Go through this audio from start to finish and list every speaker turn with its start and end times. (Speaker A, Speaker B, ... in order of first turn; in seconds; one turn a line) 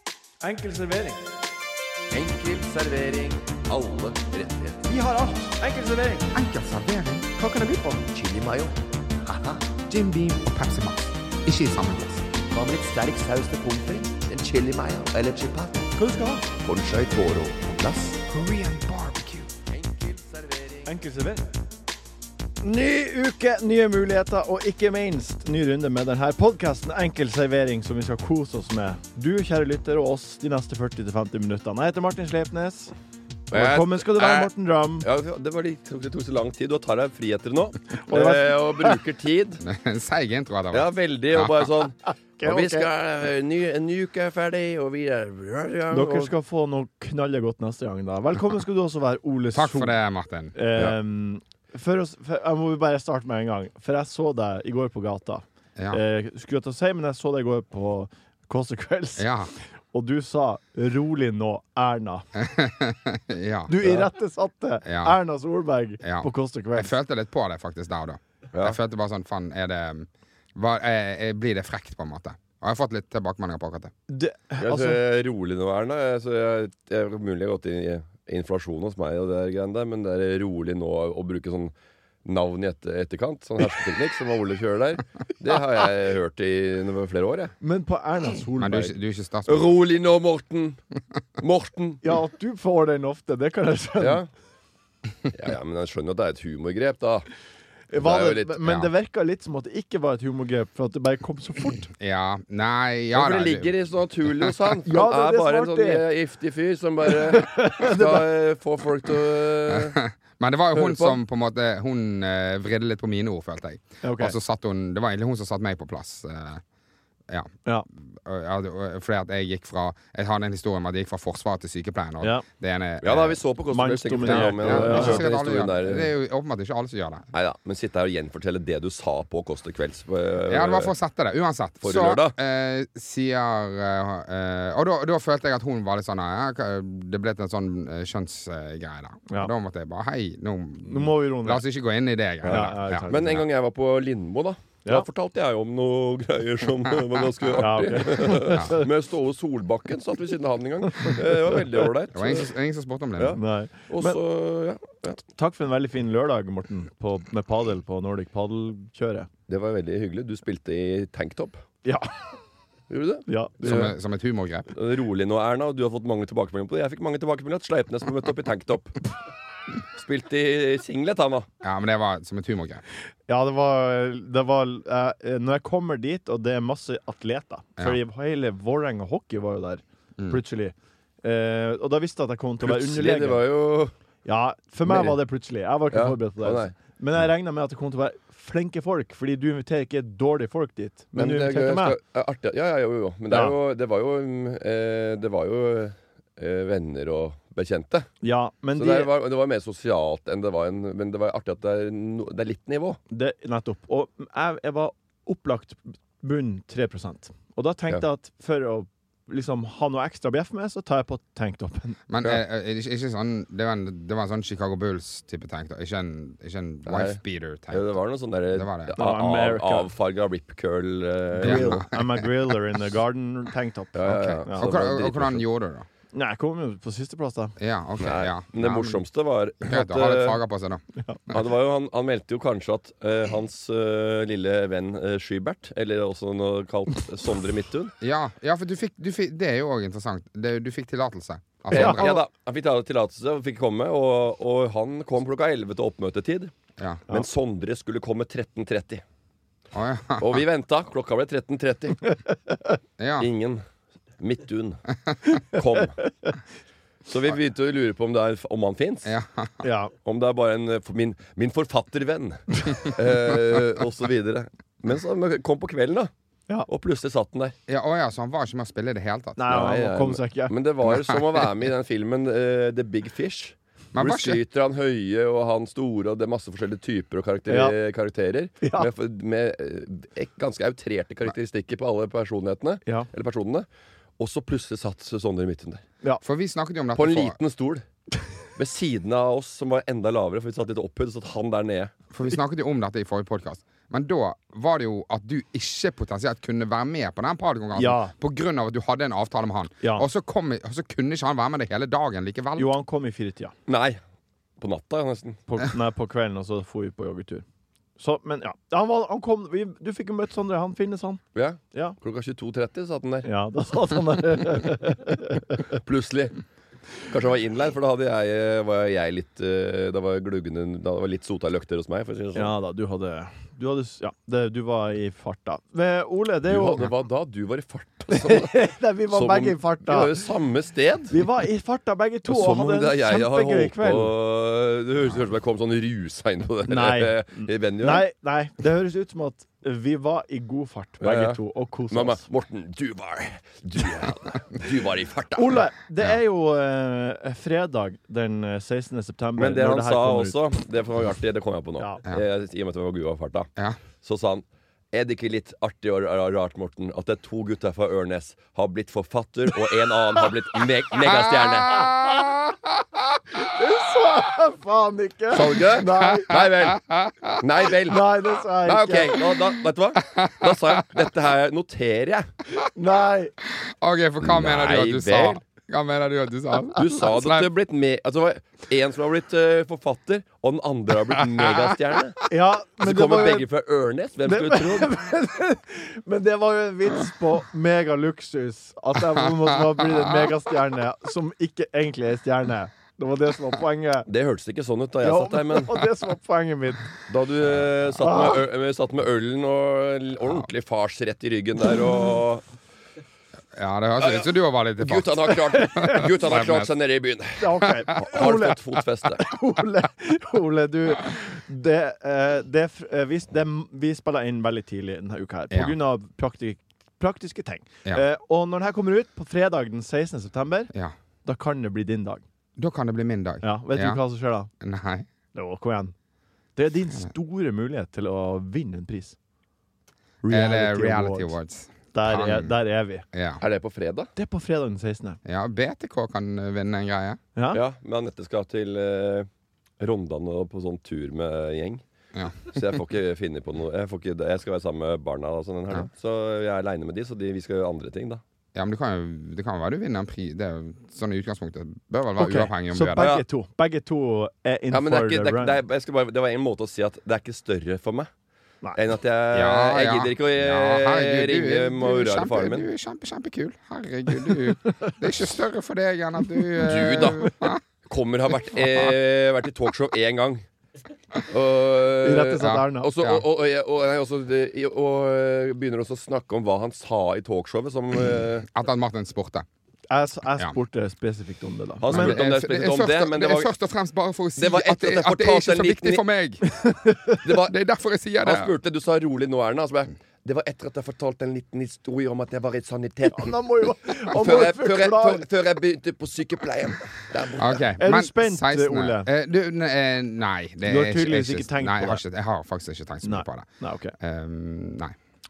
Speaker A: 0.4-1.2
Speaker B: 2.1-4.8
Speaker A: 4.9-6.3
Speaker C: 6.3-7.3
Speaker A: 7.4-8.0
Speaker B: 8.0-10.3
Speaker C: 9.9-12.3
Speaker B: 12.5-15.9
Speaker A: 16.0-16.4
Speaker B: 16.5-18.2
Speaker C: 18.3-19.5
Speaker B: 19.9-20.8
Speaker A: 20.9-21.4
Speaker A: 22.6-32.9
Speaker D: 33.5-34.5
Speaker A: 33.5-35.1
Speaker D: 35.0-39.6
Speaker A: 38.1-39.0
Speaker C: 39.6-41.7
Speaker D: 40.7-46.3
Speaker A: 42.4-42.9
Speaker A: 45.9-50.0
Speaker C: 49.5-50.5
Speaker A: 50.5-62.3
Speaker C: 59.2-59.5
Speaker C: 62.4-63.9
Speaker A: 63.7-66.9
Speaker C: 64.8-65.2
Speaker C: 66.0-73.9
Speaker D: 68.5-68.8
Speaker A: 74.1-75.0
Speaker D: 74.6-81.7
Speaker D: 82.2-87.5
Speaker A: 87.6-89.0
Speaker C: 88.6-89.8
Speaker D: 89.5-90.8
Speaker D: 91.4-92.0
Speaker A: 92.0-94.2
Speaker D: 94.0-94.3
Speaker D: 95.3-97.3
Speaker A: 97.9-101.9
Speaker D: 98.0-98.6
Speaker C: 101.9-103.7
Speaker D: 103.1-110.0
Speaker C: 104.3-104.6
Speaker A: 104.9-106.0
Speaker A: 107.3-108.3
Speaker C: 109.7-116.6
Speaker D: 110.7-111.2
Speaker A: 114.0-114.3
Speaker C: 118.1-123.4
Speaker D: 123.0-126.1
Speaker A: 123.7-125.2
Speaker C: 124.2-127.2
Speaker D: 127.3-130.9
Speaker C: 130.5-143.4
Speaker D: 131.8-132.3
Speaker A: 140.8-141.6
Speaker D: 142.4-152.5
Speaker A: 142.5-143.4
Speaker A: 147.6-148.9
Speaker C: 152.1-153.4
Speaker D: 153.2-155.2
Speaker A: 153.4-154.2
Speaker A: 155.2-159.3
Speaker D: 159.5-161.6
Speaker A: 161.8-162.1
Speaker D: 162.9-163.9
Speaker A: 163.3-163.9
Speaker C: 163.6-164.7
Speaker D: 164.7-169.0
Speaker D: 169.9-171.5
Speaker C: 171.6-172.8
Speaker A: 173.3-183.4
Speaker D: 182.6-183.9
Speaker A: 184.2-191.9
Speaker D: 184.9-185.2
Speaker D: 185.9-186.7
Speaker D: 191.2-198.1
Speaker A: 193.3-193.6
Speaker A: 198.2-199.1
Speaker D: 198.8-203.0
Speaker A: 203.1-212.0
Speaker C: 212.1-217.9
Speaker D: 216.9-221.9
Speaker C: 218.5-219.0
Speaker A: 218.9-219.9
Speaker A: 221.4-224.6
Speaker C: 221.4-222.1
Speaker D: 223.9-225.4
Speaker C: 224.1-225.9
Speaker A: 226.1-227.6
Speaker C: 227.6-229.0
Speaker D: 228.0-230.4
Speaker C: 229.6-231.3
Speaker D: 231.3-237.9
Speaker C: 238.0-242.2
Speaker D: 241.7-246.5
Speaker A: 241.7-242.2
Speaker D: 247.1-249.0
Speaker C: 249.7-250.4
Speaker D: 250.2-252.1
Speaker C: 253.0-253.3
Speaker D: 253.2-253.6
Speaker D: 254.2-254.8
Speaker D: 255.5-256.0
Speaker D: 257.1-259.1
Speaker C: 259.1-259.6
Speaker A: 259.6-259.9
Speaker D: 260.1-266.1
Speaker D: 266.7-267.6
Speaker C: 267.7-269.5
Speaker A: 269.4-270.5
Speaker D: 269.5-283.6
Speaker C: 273.9-274.4
Speaker A: 277.5-277.7
Speaker A: 278.6-278.9
Speaker D: 284.2-285.8
Speaker C: 286.2-287.4
Speaker D: 286.9-287.8
Speaker D: 288.6-291.9
Speaker C: 292.1-302.7
Speaker A: 297.8-298.1
Speaker A: 302.6-303.5
Speaker D: 303.7-304.0
Speaker D: 304.6-305.4
Speaker A: 305.5-307.4
Speaker A: 308.0-311.2
Speaker D: 311.4-313.3
Speaker A: 313.2-315.6
Speaker D: 315.8-316.4
Speaker D: 317.1-322.5
Speaker A: 322.4-326.9
Speaker D: 326.5-331.2
Speaker A: 328.1-330.2
Speaker A: 331.1-334.1
Speaker D: 332.3-338.1
Speaker A: 336.7-342.2
Speaker D: 341.0-341.4
Speaker D: 341.9-345.6
Speaker A: 345.4-350.4
Speaker D: 349.4-353.5
Speaker D: 354.0-361.9
Speaker C: 361.0-362.6
Speaker A: 363.3-366.4
Speaker D: 365.3-366.8
Speaker C: 366.3-367.4
Speaker D: 367.4-368.1
Speaker A: 367.9-369.2
Speaker D: 368.6-372.3
Speaker C: 370.1-371.0
Speaker A: 372.7-373.3
Speaker C: 373.5-377.5
Speaker D: 374.2-375.4
Speaker D: 376.7-382.2
Speaker A: 382.3-383.5
Speaker D: 382.8-384.9
Speaker A: 384.3-394.1
Speaker C: 389.7-390.3
Speaker D: 394.1-395.9
Speaker A: 395.0-396.9
Speaker D: 397.1-402.4
Speaker A: 398.0-398.4
Speaker C: 403.5-406.7
Speaker D: 404.0-404.3
Speaker D: 404.8-409.3
Speaker A: 405.6-406.0
Speaker A: 407.4-408.6
Speaker A: 409.2-420.7
Speaker A: 421.2-422.2
Speaker C: 422.6-424.0
Speaker A: 423.4-424.5
Speaker C: 424.6-425.1
Speaker A: 425.4-425.9
Speaker A: 426.6-429.2
Speaker A: 430.2-431.4
Speaker C: 430.3-432.6
Speaker A: 431.9-433.1
Speaker C: 433.1-433.4
Speaker D: 433.4-434.1
Speaker A: 434.2-435.2
Speaker C: 435.2-437.2
Speaker A: 437.4-437.6
Speaker D: 437.5-439.3
Speaker D: 439.8-441.8
Speaker C: 442.1-442.8
Speaker D: 442.4-448.2
Speaker C: 448.6-453.1
Speaker A: 452.2-455.6
Speaker D: 453.0-453.2
Speaker D: 454.7-458.1
Speaker D: 458.7-462.7
Speaker C: 459.3-467.6
Speaker D: 466.6-467.3
Speaker D: 467.9-470.4
Speaker C: 468.5-468.9
Speaker D: 471.3-478.5
Speaker A: 472.0-472.9
Speaker C: 472.4-473.2
Speaker C: 478.5-479.5
Speaker A: 479.9-482.1
Speaker D: 481.8-483.5
Speaker C: 481.9-486.4
Speaker D: 484.4-486.1
Speaker A: 486.6-487.0
Speaker D: 487.2-487.5
Speaker C: 487.3-488.5
Speaker D: 488.2-493.4
Speaker A: 493.1-495.3
Speaker D: 494.1-497.6
Speaker C: 497.4-503.5
Speaker A: 497.8-499.1
Speaker A: 500.6-502.0
Speaker A: 503.0-504.0
Speaker C: 504.0-505.0